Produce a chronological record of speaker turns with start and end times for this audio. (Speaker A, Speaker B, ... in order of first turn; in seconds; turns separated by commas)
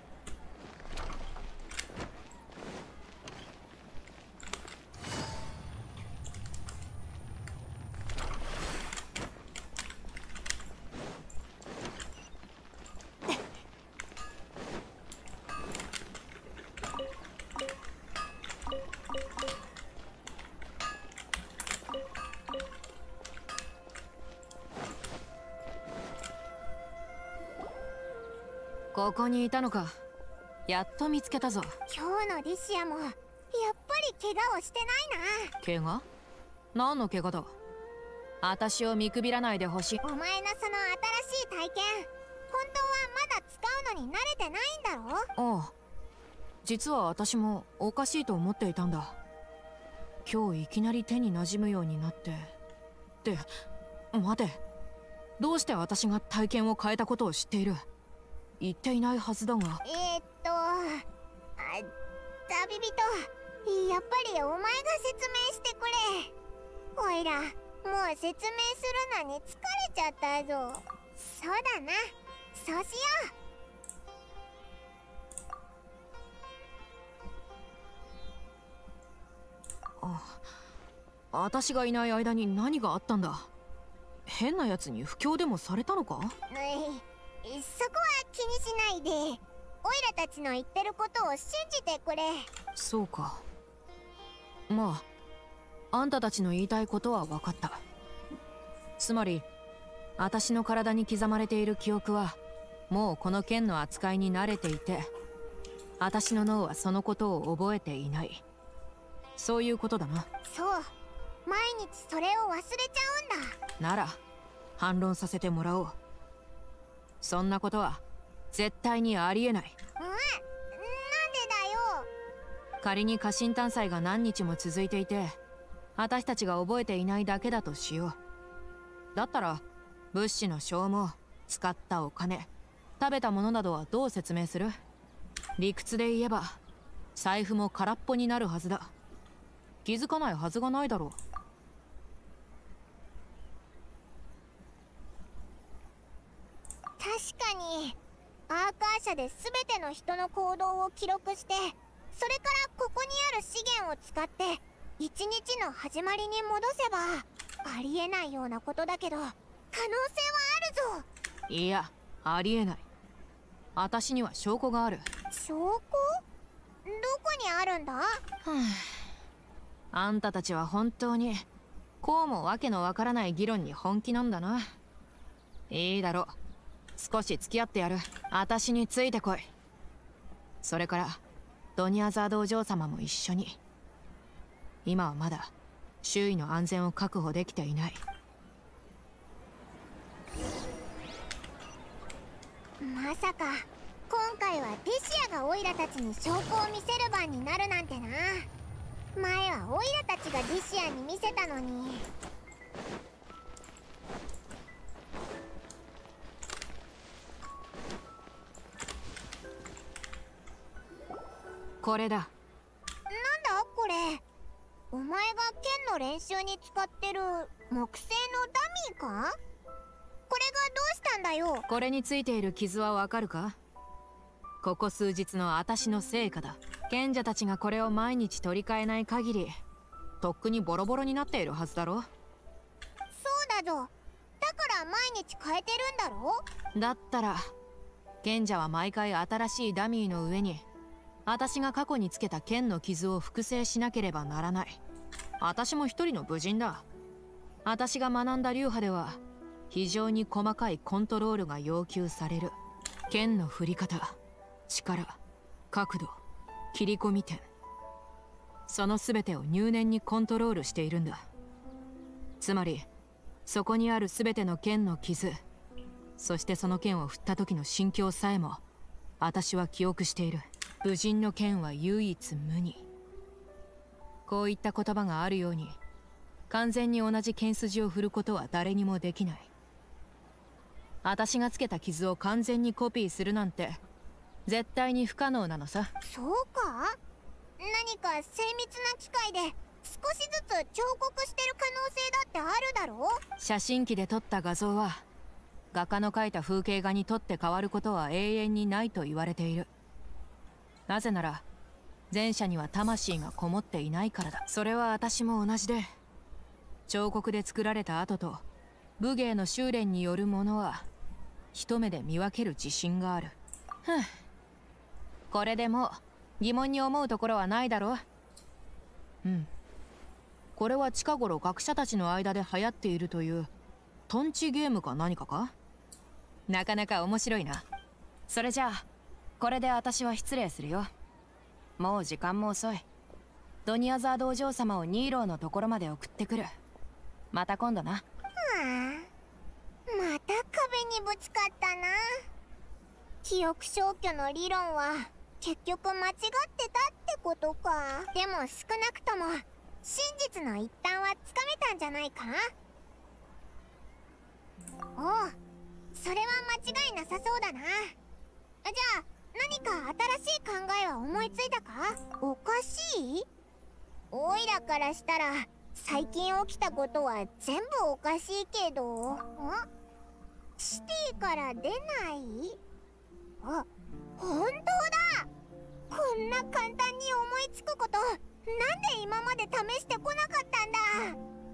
Speaker A: 28.9-29.9, Speaker A: 30.7-31.7, Speaker B: 31.9-35.5, Speaker A: 35.6-36.0, Speaker A: 36.7-37.5, Speaker A: 38.4-40.0, Speaker B: 40.0-45.3, Speaker A: 45.4-45.7, Speaker A: 46.6-49.1, Speaker A: 50.2-52.5, Speaker A: 54.1-54.6, Speaker A: 55.4-57.8, Speaker A: 58.6-59.8, Speaker B: 59.8-61.0, Speaker B: 61.6-61.9, Speaker B: 62.5-66.3, Speaker B: 67.0-73.3, Speaker A: 80.0-80.5, Speaker A: 81.3-83.5, Speaker A: 84.3-86.3, Speaker B: 86.5-92.5, Speaker A: 92.8-93.4, Speaker A: 94.7-95.0, Speaker A: 95.9-97.8, Speaker A: 99.0-99.4, Speaker A: 100.2-102.4, Speaker A: 102.9-105.1, Speaker A: 106.0-108.4, Speaker A: 109.4-110.3, Speaker B: 110.5-110.9, Speaker B: 111.5-113.5, Speaker A: 113.8-114.2, Speaker A: 114.8-115.9, Speaker A: 117.2-119.7, Speaker B: 120.0-122.1, Speaker A: 122.8-125.3, Speaker A: 126.0-128.2, Speaker A: 129.1-132.5, Speaker A: 133.0-134.8, Speaker A: 135.6-136.6, Speaker A: 137.1-138.9, Speaker A: 139.8-141.2, Speaker B: 147.0-148.0, Speaker B: 148.5-161.1, Speaker A: 161.5-162.8, Speaker A: 163.8-165.0, Speaker B: 165.3-166.2, Speaker B: 166.8-168.2, Speaker A: 168.4-168.9, Speaker A: 169.9-171.4, Speaker A: 172.0-174.7, Speaker A: 175.7-176.3, Speaker A: 177.0-179.5, Speaker A: 180.6-181.2, Speaker A: 181.8-183.6, Speaker A: 184.8-185.5, Speaker A: 186.0-188.0, Speaker B: 192.8-198.5, Speaker B: 199.2-202.1, Speaker A: 211.8-212.3, Speaker B: 213.1-214.2, Speaker B: 214.9-219.4, Speaker B: 220.3-221.6, Speaker A: 221.7-223.6, Speaker A: 224.6-229.6, Speaker A: 230.2-232.1, Speaker B: 233.1-236.4, Speaker A: 236.7-237.5, Speaker A: 238.2-240.6, Speaker A: 241.3-244.8, Speaker A: 245.4-246.8, Speaker A: 247.6-252.5, Speaker A: 253.1-254.2, Speaker A: 254.7-255.2, Speaker A: 255.7-256.2, Speaker A: 256.7-257.4, Speaker A: 258.7-261.2, Speaker A: 262.4-262.9, Speaker A: 263.4-265.4, Speaker A: 266.2-268.6, Speaker A: 269.2-272.8, Speaker A: 274.2-275.8, Speaker A: 276.5-279.5, Speaker A: 281.0-283.8, Speaker A: 284.5-285.9, Speaker B: 286.0-287.0, Speaker B: 287.6-293.2, Speaker A: 293.4-295.0, Speaker A: 295.7-299.7, Speaker A: 300.9-301.4, Speaker A: 302.1-305.9, Speaker A: 306.9-308.4, Speaker A: 309.0-310.9, Speaker A: 311.5-314.1, Speaker A: 315.3-318.0, Speaker A: 319.2-319.5, Speaker A: 320.6-323.5, Speaker A: 324.1-325.5, Speaker A: 326.5-327.6, Speaker A: 328.3-328.8, Speaker A: 329.4-330.9, Speaker A: 331.8-332.8, Speaker A: 333.6-336.5, Speaker A: 337.3-338.0, Speaker B: 338.4-339.1, Speaker B: 339.9-342.2, Speaker B: 343.2-352.5, Speaker B: 355.0-355.4, Speaker B: 355.9-357.9, Speaker B: 358.6-363.2, Speaker B: 364.1-369.6, Speaker B: 370.6-372.6, Speaker B: 373.4-373.7, Speaker B: 374.2-375.3, Speaker B: 375.9-381.2